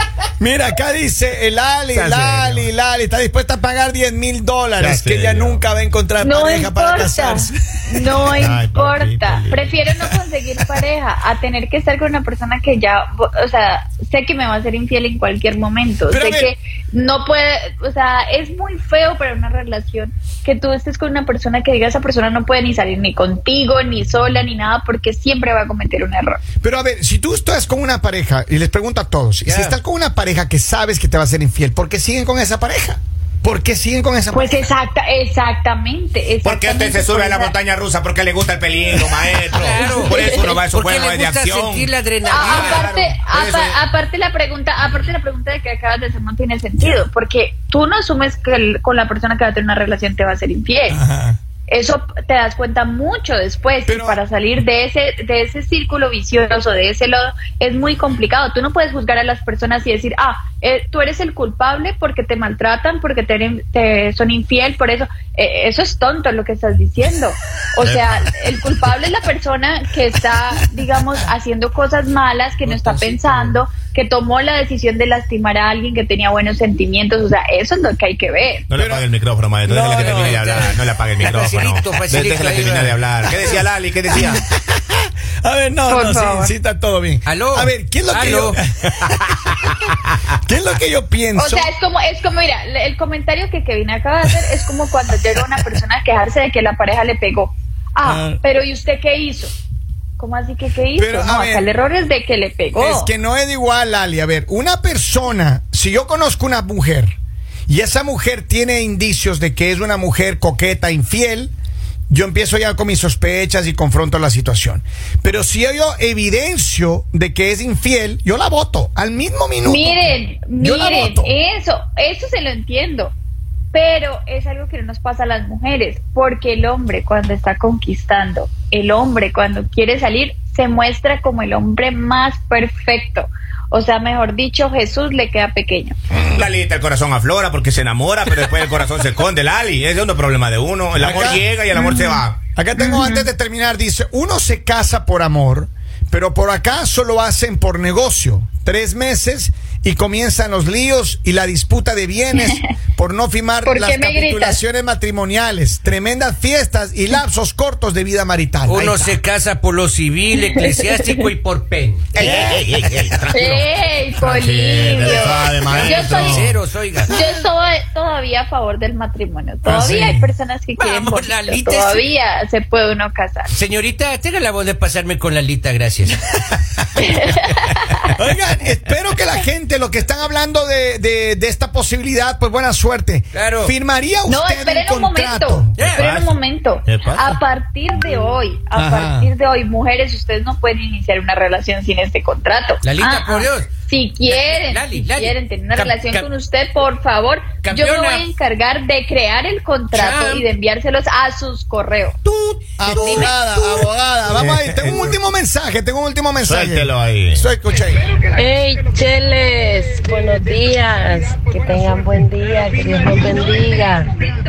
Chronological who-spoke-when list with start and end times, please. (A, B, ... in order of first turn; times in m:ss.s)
0:00.4-0:08.5 A
0:01.9-0:02.7 B
0:04.8-0:05.6 B
0:06.2-0:26.4 C
0:08.3-0:09.8 B
0:16.1-0:16.5 A
0:26.6-0:34.7 A
0:29.4-0:29.8 D
0:34.3-0:37.5 C
0:36.4-0:43.8 B
0:39.5-0:42.9 D
0:39.9-0:40.4 C
0:42.3-0:51.0 C
0:50.9-0:51.4 A
0:51.7-1:18.7 C
0:53.9-0:54.2 A
1:07.8-1:08.3 B
1:12.6-1:13.6 D
1:18.7-1:24.4 B
1:18.8-1:19.0 A
1:19.6-1:20.7 A
1:19.9-1:23.2 D
1:24.2-1:31.7 A
1:25.9-1:26.5 C
1:27.2-1:28.6 D
1:31.3-1:39.5 C
1:38.0-1:38.4 A
1:40.2-1:43.1 C
1:41.0-1:41.7 A
1:42.7-1:47.2 A
1:47.7-1:51.5 A
1:52.1-2:01.3 A
1:59.6-2:03.1 C
2:03.7-2:16.0 C
2:16.3-2:22.4 B
2:20.9-2:21.4 A
2:21.7-2:22.2 C
2:22.5-2:39.2 A
2:22.7-2:23.3 C
2:33.6-2:34.6 C
2:38.6-2:42.4 D
2:42.1-2:43.6 B
2:42.2-2:42.6 A
2:43.3-2:46.5 C
2:44.2-2:46.5 B
2:45.0-2:45.4 A
2:45.7-2:47.2 D
2:47.1-2:53.5 C
2:49.6-2:50.3 A
2:50.8-2:52.1 D
2:53.5-2:56.2 D
2:57.0-2:58.1 C
2:58.1-3:05.8 A
3:03.3-3:03.7 D
3:04.2-3:22.2 C
3:05.8-3:06.1 D
3:05.9-3:06.4 B
3:06.9-3:07.4 B
3:08.7-3:09.3 A
3:12.8-3:13.7 D
3:14.2-3:16.2 D
3:17.6-3:18.3 D
3:19.9-3:20.5 D
3:22.2-3:23.9 D
3:22.8-3:28.0 A
3:24.3-3:25.1 B
3:26.4-3:27.5 B
3:28.4-3:34.2 E